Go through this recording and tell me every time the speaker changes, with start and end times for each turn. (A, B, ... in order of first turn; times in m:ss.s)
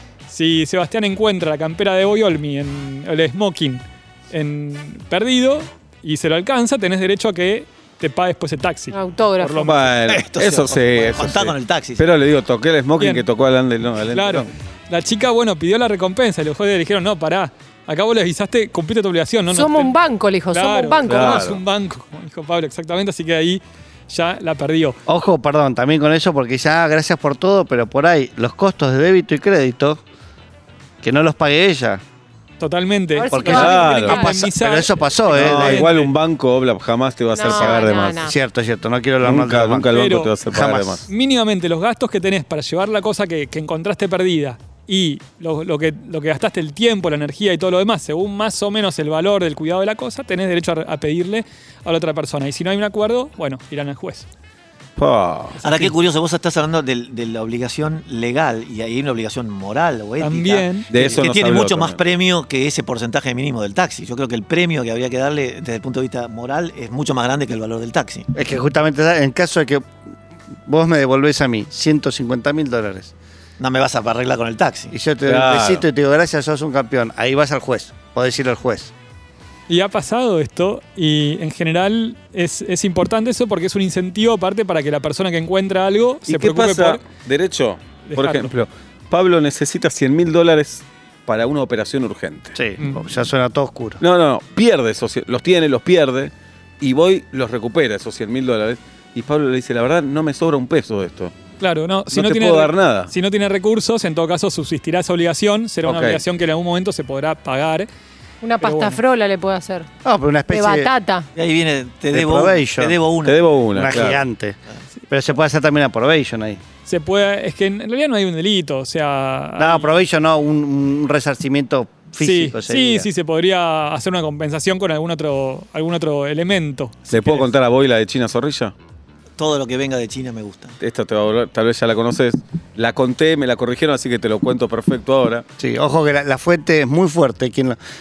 0:00.3-0:09.8 A
0:08.9-0:09.7 B
0:09.6-0:14.5 C
0:10.1-0:12.0 D
0:13.0-0:13.3 A
0:14.1-0:19.9 A
0:19.5-0:21.5 B
0:20.5-0:25.0 A
0:21.0-0:21.6 C
0:25.1-0:30.0 E
0:31.0-0:32.0 E
0:32.6-0:36.1 A
0:33.1-0:34.4 B
0:33.3-0:35.9 E
0:33.4-0:34.3 C
0:35.3-0:38.2 C
0:37.3-0:38.3 B
0:37.4-0:41.0 E
0:39.2-0:41.1 C
0:39.9-0:40.3 A
0:41.1-0:54.3 A
0:55.0-0:55.6 C
0:55.6-0:55.9 A
0:55.6-1:08.3 D
1:00.2-1:01.2 A
1:00.9-1:02.0 C
1:08.3-1:09.9 E
1:10.7-1:13.1 E
1:13.6-1:14.9 D
1:14.9-1:18.9 E
1:15.2-1:15.8 C
1:19.7-1:27.0 A
1:26.3-1:32.6 C
1:28.1-1:28.5 A
1:32.5-1:34.0 E
1:34.0-1:41.3 C
1:41.6-1:47.9 A
1:42.1-1:43.1 C
1:45.8-1:46.2 C
1:48.4-1:49.9 B
1:48.6-1:49.0 A
1:50.0-1:50.9 E
1:50.5-1:51.3 B
1:51.4-1:54.2 D
1:52.1-1:53.0 E
1:53.2-1:54.2 C
1:53.7-1:54.6 E
1:55.1-1:56.6 E
1:56.8-1:59.9 A
1:59.6-2:03.1 E
2:02.2-2:07.5 A
2:07.1-2:08.7 C
2:09.4-2:10.8 D
2:10.8-2:15.4 C
2:15.6-2:17.8 E